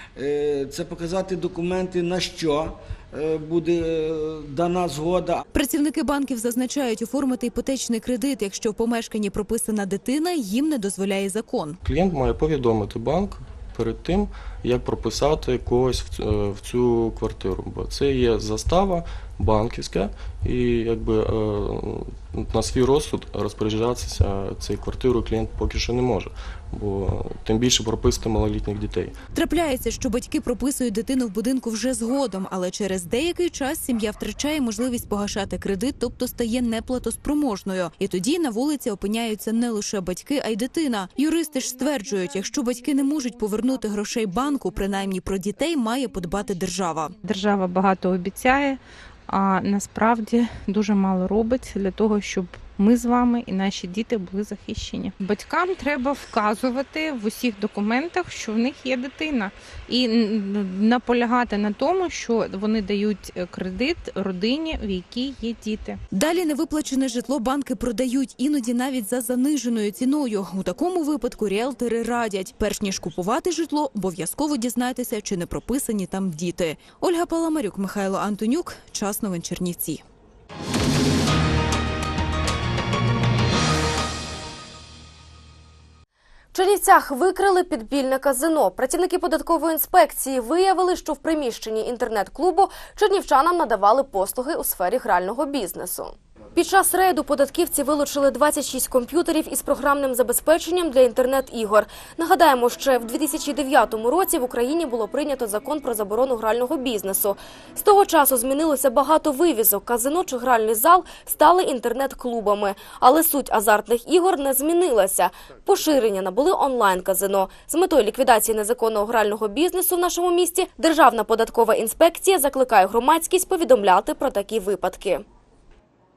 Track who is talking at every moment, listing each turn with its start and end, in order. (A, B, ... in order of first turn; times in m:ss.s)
0:00.2-0:05.4 A
0:05.5-0:11.8 B
0:11.8-0:29.2 C
0:29.3-0:47.2 B
0:47.2-1:06.0 D
1:06.1-1:20.0 B
1:26.5-2:05.2 E